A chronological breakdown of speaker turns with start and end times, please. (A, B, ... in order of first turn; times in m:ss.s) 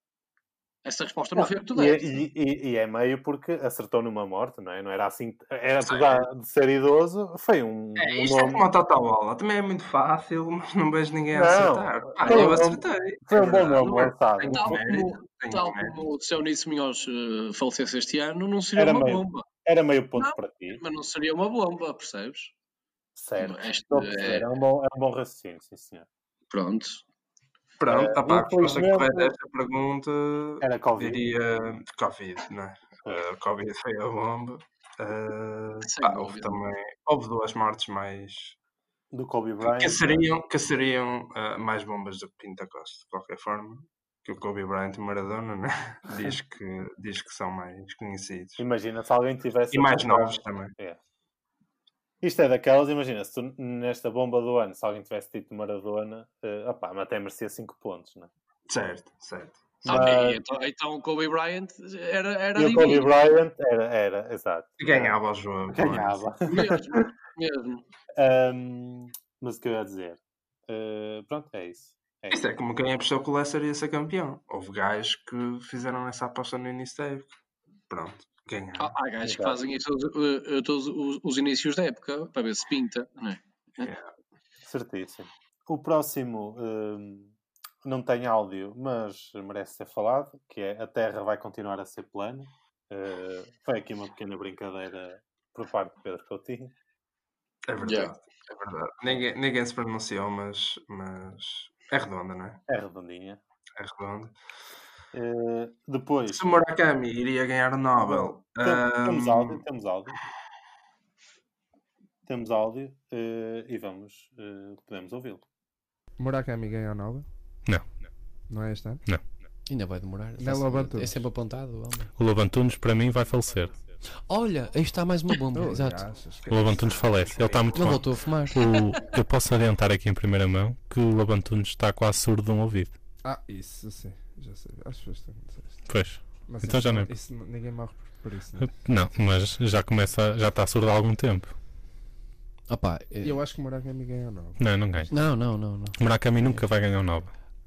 0:00.8-0:02.2 A
0:01.3-0:08.6 B
0:05.8-0:06.1 C
0:08.0-0:16.0 C
0:11.3-0:14.8 B
0:12.2-0:12.6 A
0:13.4-0:19.5 A
0:18.8-0:20.8 B
0:20.2-0:22.5 A
0:23.2-0:26.1 B
0:23.4-0:24.5 A
0:26.5-0:27.0 A
0:27.8-0:38.6 C
0:27.9-0:29.3 B
0:30.6-0:31.2 B
0:35.8-0:36.6 A
0:39.1-0:40.3 B
0:39.6-0:48.6 C
0:48.6-0:51.0 B
0:49.7-0:50.7 C
0:52.2-0:58.3 B
0:58.7-1:00.1 C
0:59.8-1:03.3 A
0:59.8-1:00.4 B
1:02.5-1:05.2 B
1:04.8-1:06.3 C
1:05.7-1:07.1 B
1:06.5-1:07.8 A
1:08.2-1:12.4 B
1:12.3-1:17.3 C
1:17.9-1:18.9 C
1:18.8-1:23.9 A
1:19.2-1:19.6 B
1:23.8-1:24.1 C
1:24.6-1:36.7 B
1:37.7-1:42.6 C
1:37.8-1:38.1 A
1:42.7-1:43.4 B
1:43.8-1:44.4 C
1:45.1-1:46.5 B
1:46.3-1:49.6 C
1:48.0-1:50.2 B
1:52.2-1:55.4 B
1:56.2-1:57.3 D
1:57.6-1:58.0 E
1:58.5-1:59.0 D
1:59.7-2:02.1 F
2:00.4-2:01.3 D
2:02.2-2:03.8 E
2:04.2-2:06.0 F
2:05.5-2:07.2 D
2:06.5-2:12.9 E
2:07.7-2:08.6 F
2:13.2-2:18.8 D
2:15.9-2:17.1 E
2:18.6-2:21.5 E
2:22.7-2:23.4 F
2:23.2-2:25.1 D
2:24.6-2:25.1 E
2:25.1-2:26.6 F
2:25.9-2:27.4 E